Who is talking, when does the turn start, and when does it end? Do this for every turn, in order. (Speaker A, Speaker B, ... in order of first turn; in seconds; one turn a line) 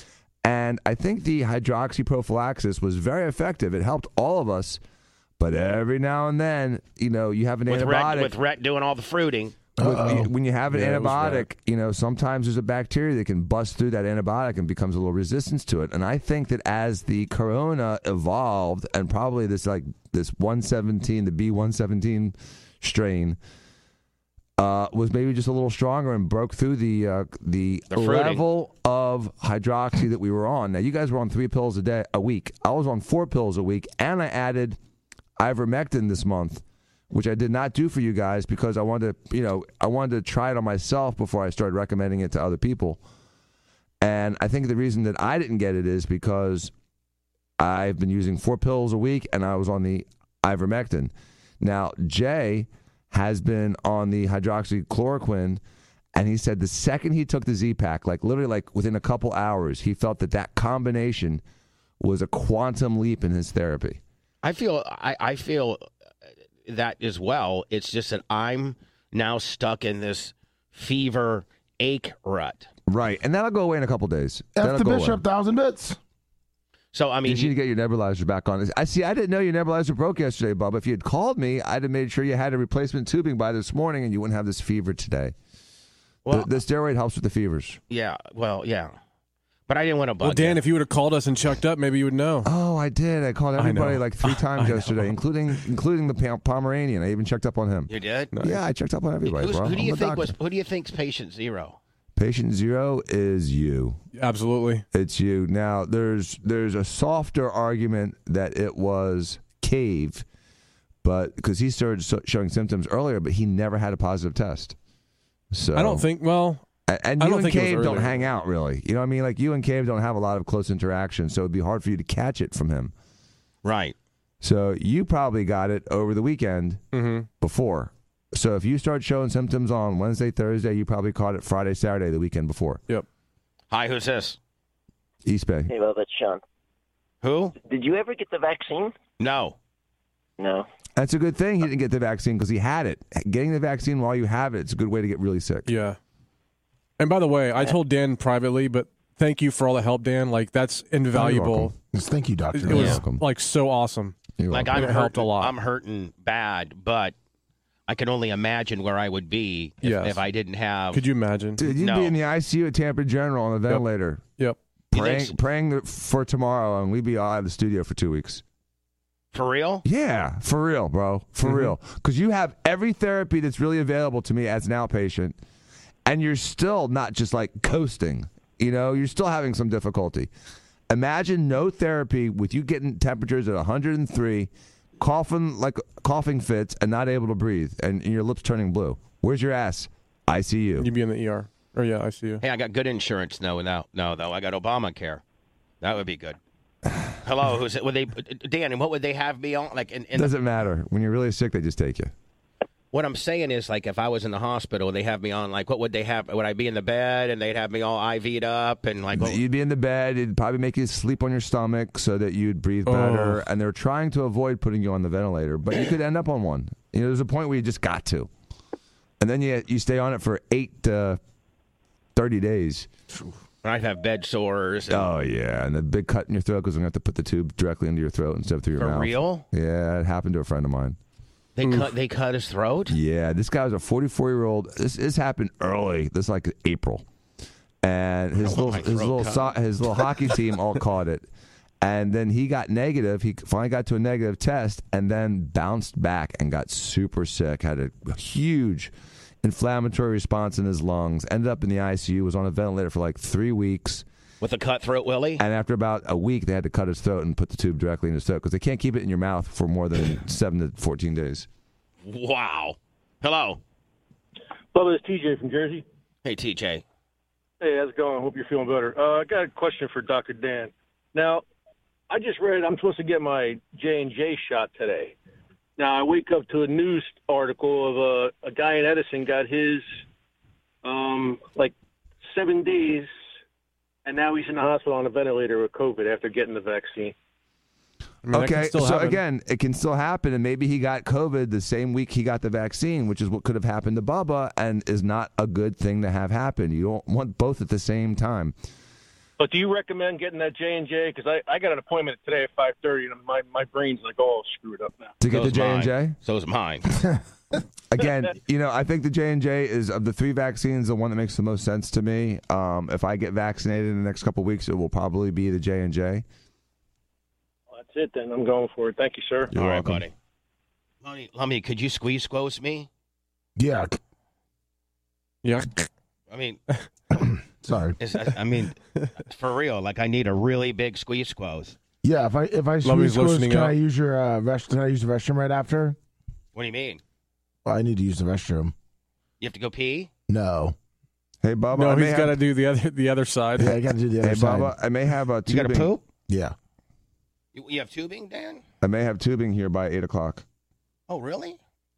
Speaker A: 0.4-4.8
Speaker A: 5.4-8.3
Speaker B: 7.7-9.6
Speaker C: 9.8-10.3
Speaker A: 9.8-23.4
Speaker D: 10.7-11.5
Speaker A: 24.6-34.8
Speaker B: 27.9-28.4
Speaker A: 35.4-43.0
Speaker A: 44.0-46.7
Speaker A: 47.6-55.6
Speaker A: 56.1-61.4
Speaker A: 62.0-64.0
Speaker B: 64.4-65.8
Speaker B: 66.7-72.7
Speaker A: 72.9-75.2
Speaker C: 74.6-76.0
Speaker B: 76.9-77.5
Speaker A: 77.2-85.3
Speaker B: 86.2-86.5
Speaker A: 86.3-87.8
Speaker B: 87.9-89.0
Speaker B: 89.7-90.6
Speaker D: 90.2-92.5
Speaker A: 92.4-100.3
Speaker D: 93.6-95.1
Speaker B: 97.9-98.3
Speaker D: 98.3-98.6
Speaker B: 99.3-101.8
Speaker A: 102.2-104.0
Speaker D: 104.2-104.8
Speaker A: 104.9-110.2
Speaker A: 111.0-114.8
Speaker A: 115.5-116.1
Speaker D: 115.8-116.6
Speaker A: 116.9-122.9
Speaker D: 117.2-118.2
Speaker B: 123.6-124.0
Speaker A: 124.4-126.8
Speaker D: 126.9-127.3
Speaker A: 127.4-132.8
Speaker B: 133.7-134.4
Speaker A: 135.2-135.7
Speaker E: 135.7-136.4
Speaker B: 137.2-137.6
Speaker E: 137.6-138.9
Speaker B: 139.2-139.6
Speaker E: 140.4-140.7
Speaker A: 141.0-145.7
Speaker D: 145.7-146.0
Speaker D: 147.0-151.7
Speaker A: 151.1-151.7
Speaker C: 151.9-153.0
Speaker D: 152.5-155.5
Speaker A: 152.7-153.3
Speaker A: 154.4-154.9
Speaker B: 154.5-157.2
Speaker B: 157.9-161.0
Speaker D: 159.8-160.2
Speaker D: 160.9-161.6
Speaker A: 161.6-164.2
Speaker B: 161.7-162.2
Speaker A: 164.9-168.4
Speaker B: 164.9-165.4
Speaker B: 169.3-169.8
Speaker A: 169.8-175.4
Speaker D: 171.4-171.7
Speaker A: 176.1-180.3
Speaker A: 180.9-190.9
Speaker D: 190.8-192.4
Speaker B: 192.4-195.2
Speaker B: 195.8-196.4
Speaker B: 197.2-200.3
Speaker A: 200.1-202.1
Speaker B: 202.9-209.4
Speaker A: 209.2-218.3
Speaker D: 212.9-213.4
Speaker A: 219.2-221.2
Speaker A: 222.2-222.9
Speaker B: 223.6-225.1
Speaker A: 224.9-231.0
Speaker B: 228.8-229.5
Speaker B: 231.6-233.0
Speaker A: 232.9-237.1
Speaker A: 237.8-241.3
Speaker B: 238.4-239.5
Speaker A: 241.8-254.1
Speaker B: 254.4-255.4
Speaker A: 255.4-261.5
Speaker B: 262.0-263.6
Speaker F: 264.7-265.8
Speaker B: 266.2-266.8
Speaker F: 267.6-271.4
Speaker F: 272.1-275.2
Speaker F: 275.8-279.9
Speaker F: 280.8-281.7
Speaker F: 282.3-283.1
Speaker F: 284.1-287.1
Speaker D: 288.2-289.2
Speaker A: 288.3-298.5
Speaker F: 299.4-305.1
Speaker A: 305.2-306.2
Speaker B: 305.3-306.9
Speaker A: 307.9-316.2
Speaker F: 317.7-319.5
Speaker A: 319.5-320.1
Speaker B: 319.5-320.1
Speaker B: 321.0-322.9
Speaker C: 323.6-324.0
Speaker D: 325.4-325.9
Speaker B: 326.3-326.6
Speaker C: 327.1-328.0
Speaker B: 328.0-331.8
Speaker C: 332.0-336.0
Speaker D: 332.8-333.8
Speaker B: 336.6-337.0
Speaker C: 337.6-338.7
Speaker B: 339.4-340.1
Speaker C: 340.3-340.8
Speaker A: 341.4-342.4
Speaker D: 341.8-343.9
Speaker C: 343.6-344.7
Speaker A: 344.2-345.9
Speaker B: 345.5-346.0
Speaker C: 346.3-346.6
Speaker B: 347.5-348.6
Speaker A: 348.8-350.4
Speaker B: 351.1-351.6